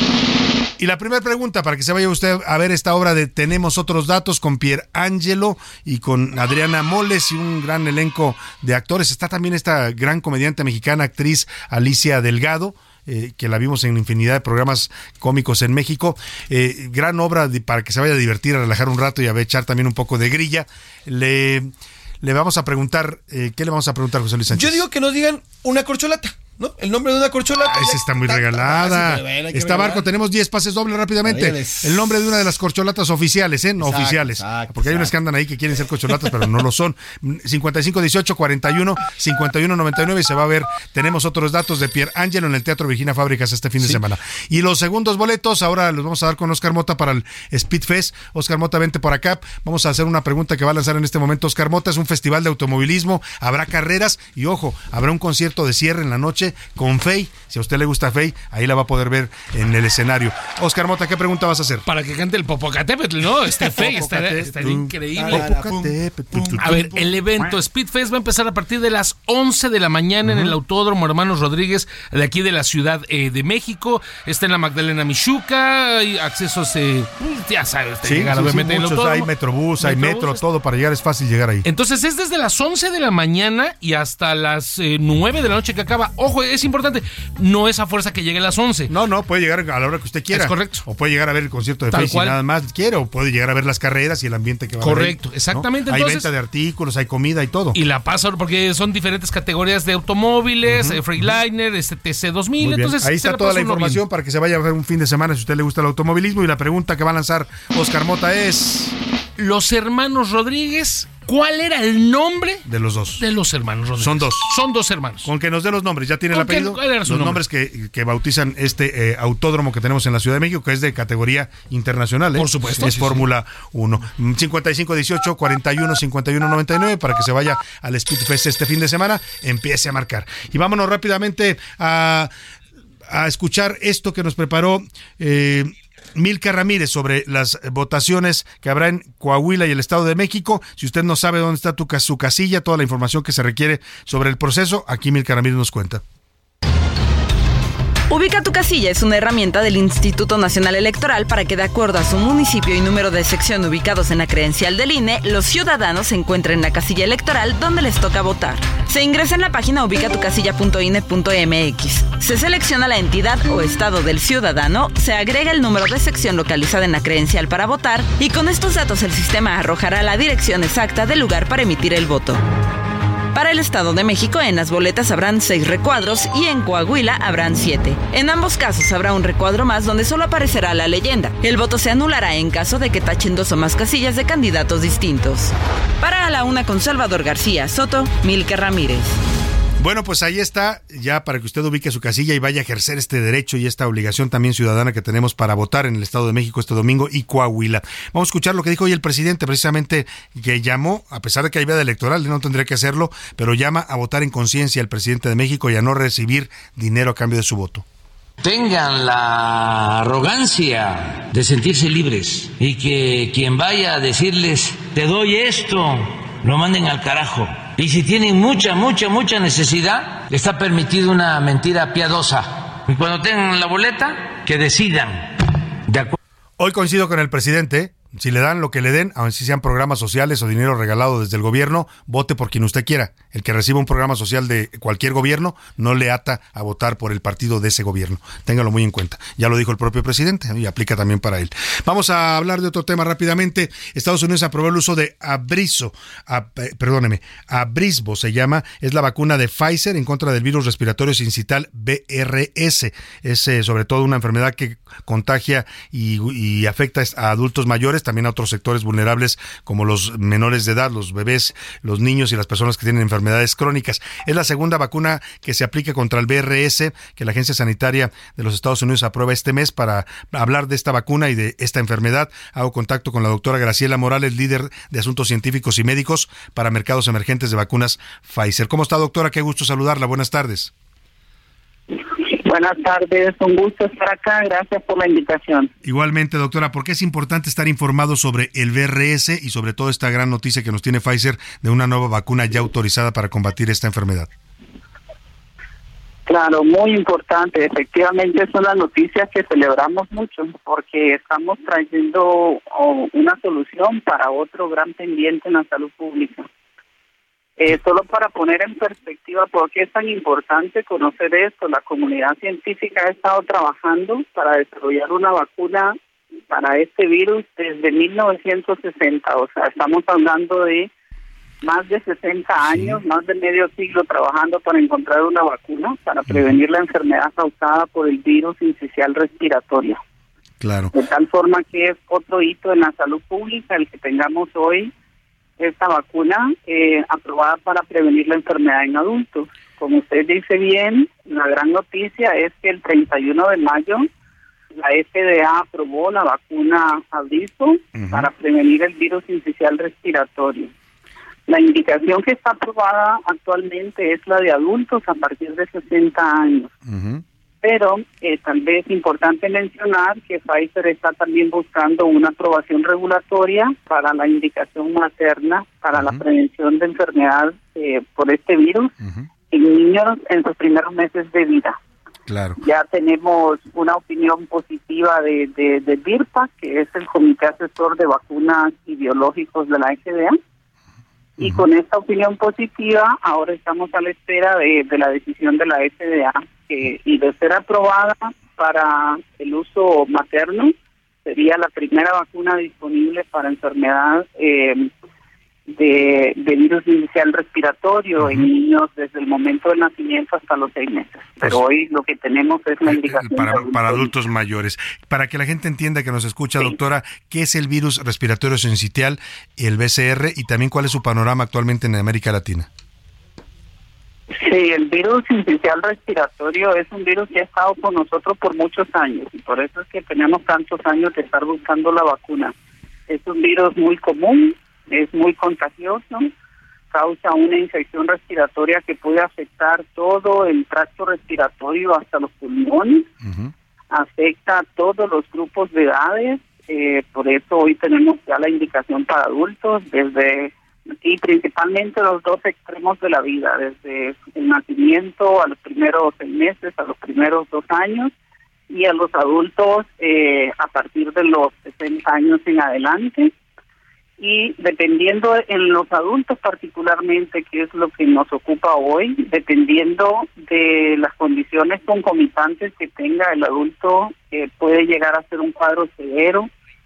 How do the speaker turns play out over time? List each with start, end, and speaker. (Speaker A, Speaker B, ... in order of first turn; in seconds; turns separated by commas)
Speaker A: 0.8-24.8, Speaker B: 24.5-30.1, Speaker A: 27.6-61.9, Speaker B: 31.2-32.0, Speaker B: 33.8-35.1, Speaker C: 61.9-65.6, Speaker A: 63.6-67.1, Speaker B: 65.1-67.0, Speaker C: 66.6-80.4, Speaker A: 70.2-70.6, Speaker A: 78.0-81.7, Speaker C: 81.6-88.9, Speaker A: 88.9-97.8, Speaker C: 90.3-90.8, Speaker C: 91.9-92.4, Speaker C: 94.8-96.3, Speaker C: 97.7-104.0, Speaker A: 100.7-101.3, Speaker A: 102.6-109.0, Speaker C: 109.4-112.6, Speaker A: 112.7-113.2, Speaker C: 113.2-115.3, Speaker A: 114.0-114.5, Speaker A: 115.2-132.3, Speaker C: 116.3-117.4, Speaker C: 122.3-122.9, Speaker B: 122.7-123.2, Speaker A: 133.1-146.0, Speaker D: 148.1-172.4, Speaker D: 173.3-189.2, Speaker A: 189.8-207.8, Speaker E: 208.4-225.3, Speaker E: 225.9-226.1, Speaker A: 226.6-280.7, Speaker F: 282.3-285.7, Speaker A: 285.8-294.3, Speaker F: 296.3-306.4, Speaker F: 307.6-315.9, Speaker F: 316.5-320.9, Speaker F: 321.6-330.0, Speaker A: 322.6-323.0, Speaker A: 326.3-326.6, Speaker A: 330.6-330.9, Speaker F: 330.9-334.9, Speaker F: 335.6-344.1, Speaker F: 344.8-350.7, Speaker A: 347.9-348.3, Speaker F: 351.5-356.7, Speaker A: 356.9-357.2, Speaker F: 357.6-368.9, Speaker A: 365.9-366.2, Speaker F: 369.5-371.8, Speaker A: 372.3-372.6, Speaker F: 372.6-380.4, Speaker F: 381.4-390.7, Speaker F: 391.2-394.9, Speaker F: 395.7-404.1, Speaker A: 398.2-398.5, Speaker A: 402.9-412.7, Speaker F: 414.3-422.5, Speaker F: 423.1-426.3, Speaker F: 426.9-433.1, Speaker F: 433.9-448.1, Speaker F: 448.7-453.3, Speaker F: 454.2-466.5